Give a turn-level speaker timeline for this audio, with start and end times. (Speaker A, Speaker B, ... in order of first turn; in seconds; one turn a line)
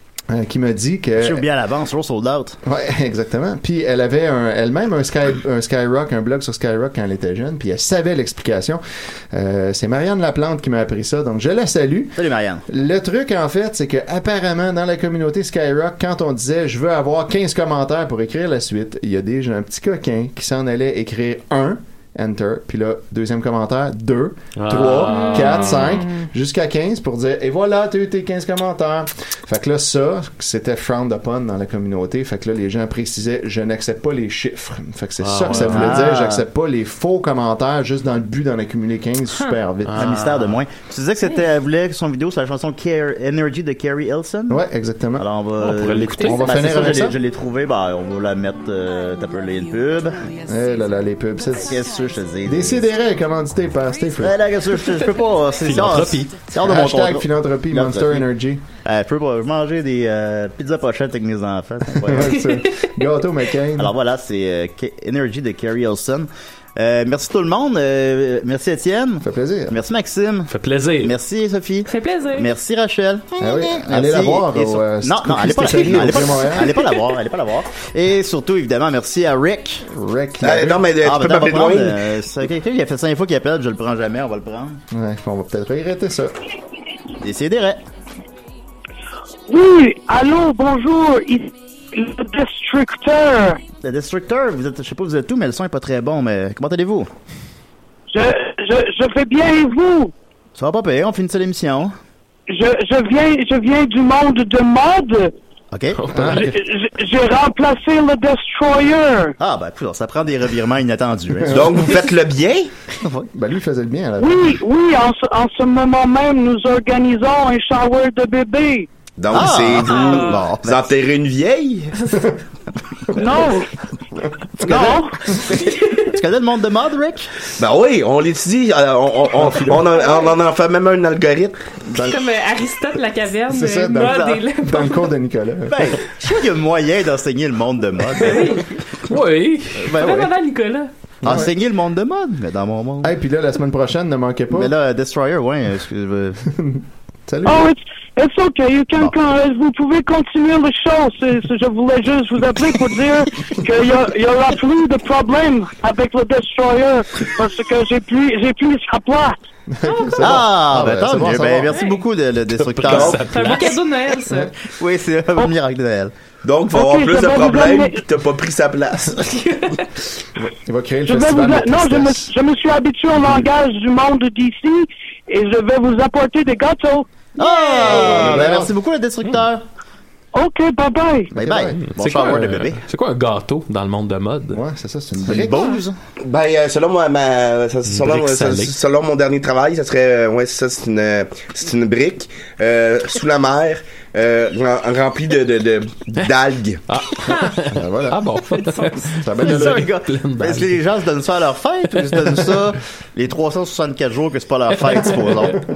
Speaker A: 0.3-1.5
Speaker B: 1.2-2.6
Speaker A: 2.6-40.2
Speaker B: 12.2-12.6
Speaker C: 24.6-26.0
Speaker D: 25.1-26.2
Speaker C: 35.2-36.0
Speaker B: 35.5-36.4
Speaker C: 39.8-40.6
Speaker B: 40.0-44.6
Speaker A: 44.5-45.3
Speaker B: 45.1-50.3
Speaker C: 45.6-46.7
Speaker A: 46.2-47.2
Speaker A: 50.5-51.8
Speaker B: 51.5-52.9
Speaker A: 52.4-54.5
Speaker B: 54.2-58.3
Speaker C: 55.6-56.4
Speaker A: 56.5-58.6
Speaker B: 58.8-62.4
Speaker A: 62.0-63.9
Speaker D: 62.2-62.9
Speaker B: 63.8-79.8
Speaker A: 69.2-69.8
Speaker C: 70.5-71.1
Speaker D: 71.9-72.5
Speaker A: 73.4-76.8
Speaker A: 79.8-80.9
Speaker E: 80.4-82.0
Speaker B: 81.0-84.8
Speaker A: 84.9-86.3
Speaker B: 87.2-87.8
Speaker F: 89.5-93.6
Speaker B: 93.8-97.1
Speaker F: 98.1-100.1
Speaker B: 100.6-101.9
Speaker F: 102.5-105.3
Speaker B: 105.7-106.0
Speaker C: 106.0-106.5
Speaker A: 106.1-106.6
Speaker F: 106.3-109.3
Speaker B: 109.4-111.6
Speaker A: 111.4-111.8
Speaker E: 111.5-112.7
Speaker B: 113.0-113.3
Speaker A: 113.3-114.6
Speaker F: 114.2-118.9
Speaker E: 119.2-121.9
Speaker B: 119.3-120.8
Speaker D: 119.9-120.4
Speaker F: 123.1-123.7
Speaker A: 124.6-124.9
Speaker B: 124.6-127.5
Speaker F: 124.6-125.3
Speaker D: 125.5-126.0
Speaker E: 127.6-131.6
Speaker A: 131.9-132.2
Speaker D: 132.0-135.1
Speaker A: 133.5-135.9
Speaker B: 135.7-138.8
Speaker D: 138.2-138.6
Speaker C: 139.1-139.9
Speaker B: 139.8-140.4
Speaker D: 140.0-140.9
Speaker A: 141.2-141.5
Speaker B: 141.2-143.1
Speaker A: 143.0-144.7
Speaker B: 144.5-146.4
Speaker A: 146.6-147.7
Speaker F: 147.4-159.3
Speaker A: 159.7-161.7
Speaker D: 159.8-160.3
Speaker B: 160.2-163.3
Speaker D: 161.7-162.0
Speaker C: 162.5-163.8
Speaker D: 163.1-164.5
Speaker B: 164.6-166.1
Speaker E: 166.4-169.3
Speaker F: 166.7-168.0
Speaker A: 170.3-172.3
Speaker F: 171.0-177.1
Speaker B: 177.4-179.6
Speaker D: 177.4-178.4
Speaker A: 177.8-178.7
Speaker F: 180.3-181.3
Speaker B: 181.3-182.8
Speaker A: 181.3-182.3
Speaker C: 181.8-184.6
Speaker A: 184.5-185.7
Speaker B: 185.1-186.0
Speaker E: 186.2-196.8
Speaker C: 187.8-188.7
Speaker C: 196.9-200.8
Speaker D: 197.3-197.5
Speaker A: 197.7-198.2
Speaker D: 198.5-199.2
Speaker A: 199.2-199.9
Speaker B: 199.4-205.6
Speaker C: 201.9-202.6